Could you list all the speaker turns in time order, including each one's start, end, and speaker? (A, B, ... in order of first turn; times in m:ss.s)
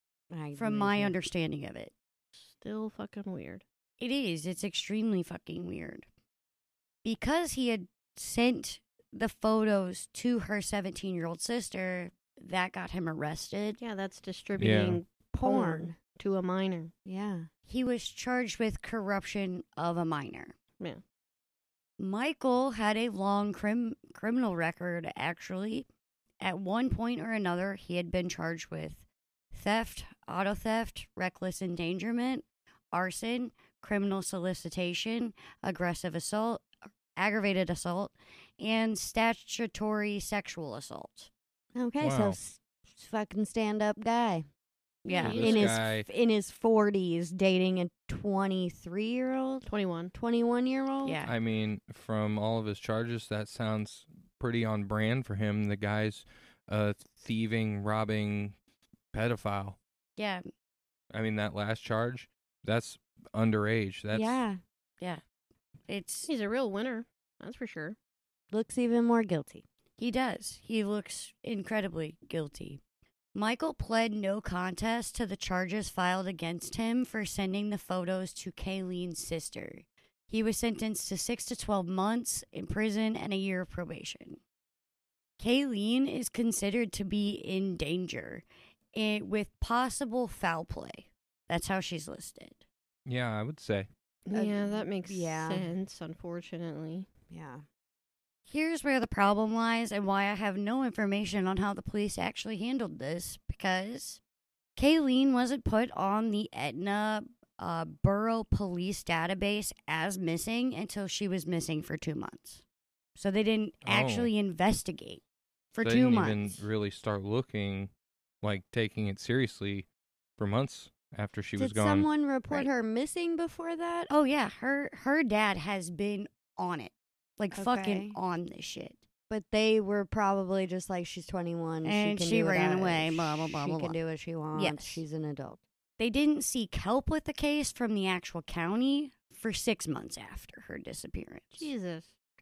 0:00.3-0:01.1 A
0:00.5-0:01.9 B
0:02.3-0:03.6 C
0:04.0-0:06.0 B
0:07.0-0:13.8 B
0:13.8-0:16.9 C
0:14.6-0:15.0 D
0:15.3-0:16.0 A
0:17.0-0:17.5 A
0:17.7-0:20.5 B
0:22.0-0:25.9 B
0:26.4-0:41.3 B
0:41.7-0:44.4 A
0:42.0-0:42.4 D
0:45.0-0:45.7 B
0:45.1-0:51.2 A
0:45.3-0:46.1 D
0:49.6-0:50.1 C
0:51.0-0:51.3 B
0:51.2-0:58.6 D
0:59.1-0:59.8 D
1:00.2-1:00.4 B
1:01.1-1:04.4 D
1:04.1-1:04.6 A
1:05.9-1:06.3 B
1:06.3-1:08.0 C
1:08.5-1:09.6 A
1:10.0-1:12.8 B
1:13.3-1:24.4 B
1:25.4-1:32.6 B
1:33.0-1:33.9 D
1:34.2-1:37.1 C
1:34.3-1:35.7 A
1:37.3-1:37.6 A
1:38.5-1:44.2 B
1:44.8-1:52.6 B
1:53.1-1:55.2 B
1:53.8-1:54.3 D
1:55.7-1:56.6 B
1:55.8-1:59.9 D
2:00.4-2:02.1 D
2:01.6-2:04.1 A
2:04.1-2:09.0 B
2:07.5-2:08.2 A
2:09.3-2:15.6 A
2:11.8-2:14.0 B
2:14.5-2:15.0 B
2:16.0-2:21.7 B
2:21.6-2:22.1 C